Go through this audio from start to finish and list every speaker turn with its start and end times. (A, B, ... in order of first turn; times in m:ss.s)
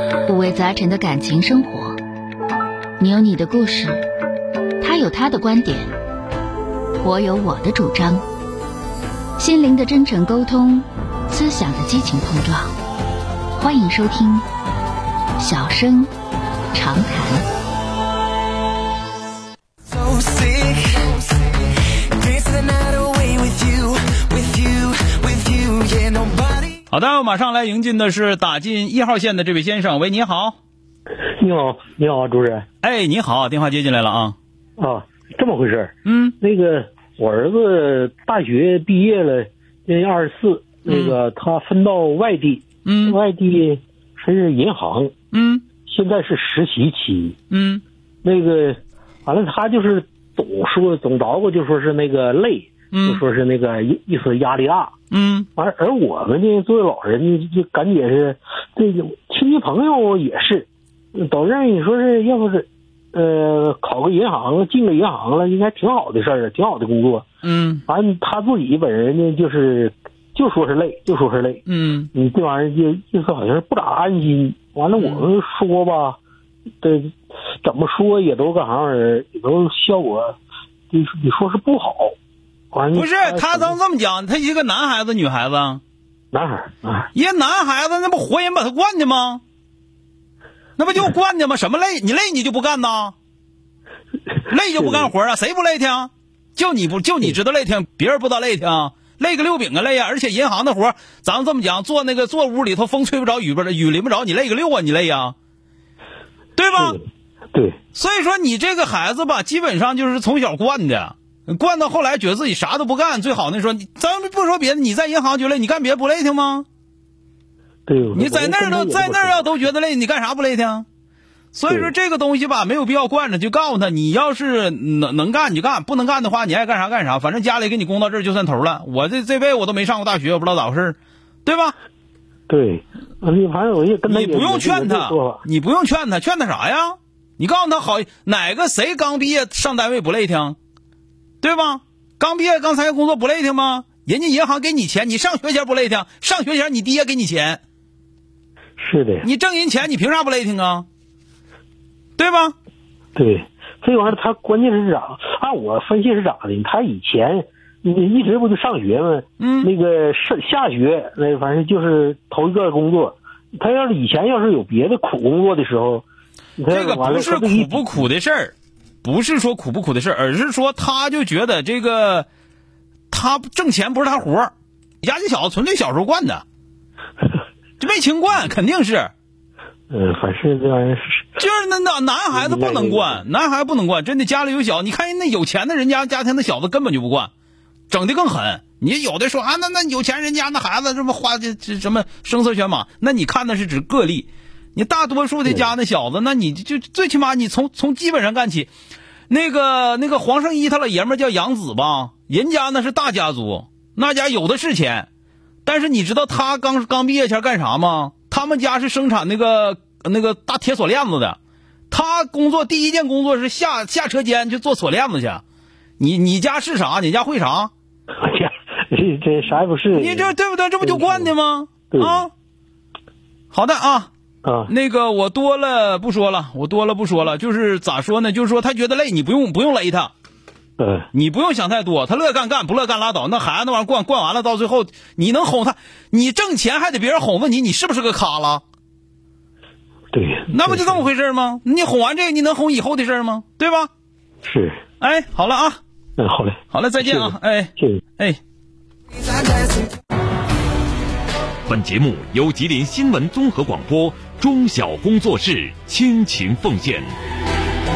0:00.3-0:02.0 A
0:03.0-0:04.0 A
0:04.8-0:05.9 A
0:07.0-0:08.2 A
0:09.4-0:12.7 A
0:13.6-0:14.5 A
0:15.4-0:16.1 A
0:16.7-0:17.4 A
0:19.9-0:21.3 B
0:22.2-0:26.7 B
0:26.9-0:30.6 C
0:31.4-0:32.7 D
0:32.8-0:34.4 C
0:34.8-0:45.1 D
0:36.0-0:36.4 C
0:40.9-0:41.2 C
0:42.8-0:43.2 C
0:45.3-0:45.7 C
0:45.9-0:47.4 D
0:47.5-0:47.8 C
0:48.2-0:54.9 D
0:52.9-0:53.2 C
0:55.1-0:55.5 C
0:55.6-1:07.2 D
1:07.4-1:07.8 C
1:07.9-1:11.6 D
1:11.7-1:12.1 C
1:12.1-1:16.2 D
1:15.0-1:15.3 C
1:16.8-1:20.4 D
1:20.9-1:22.2 D
1:22.7-1:23.8 D
1:22.9-1:25.8 C
1:26.3-1:27.1 D
1:27.2-1:29.4 C
1:30.8-1:33.2 C
1:34.5-1:45.4 C
1:34.8-1:35.1 D
1:46.6-1:47.0 C
1:46.7-1:47.0 D
1:47.9-1:56.7 C
1:57.9-1:59.7 D
1:58.1-2:00.9 C
2:01.5-2:11.8 C
2:12.5-2:15.4 D
2:14.1-2:20.6 C
2:21.4-2:27.6 C
2:28.8-2:29.3 D
2:29.2-2:30.9 C
2:32.2-2:32.6 C
2:33.2-2:46.0 D
2:39.4-2:39.7 C
2:46.6-2:48.1 D
2:46.7-2:52.3 C
2:53.1-2:56.4 C
2:57.8-2:59.1 C
2:59.9-3:01.4 D
3:01.4-3:07.3 C
3:02.3-3:03.2 D
3:07.9-3:18.7 C
3:15.5-3:15.7 D
3:19.3-3:25.1 C
3:25.6-3:31.4 C
3:31.9-3:35.4 C
3:36.0-3:37.7 C
3:38.2-3:41.3 D
3:39.9-3:42.3 C
3:41.9-3:42.3 D
3:43.5-3:44.1 C
3:44.4-3:44.7 D
3:44.7-3:50.1 C
3:50.8-3:51.1 D
3:51.1-3:58.6 C
4:00.1-4:01.1 D
4:00.5-4:03.9 C
4:04.4-4:04.8 D
4:05.0-4:05.8 C
4:06.2-4:08.0 D
4:06.7-4:08.4 C
4:11.7-4:17.1 E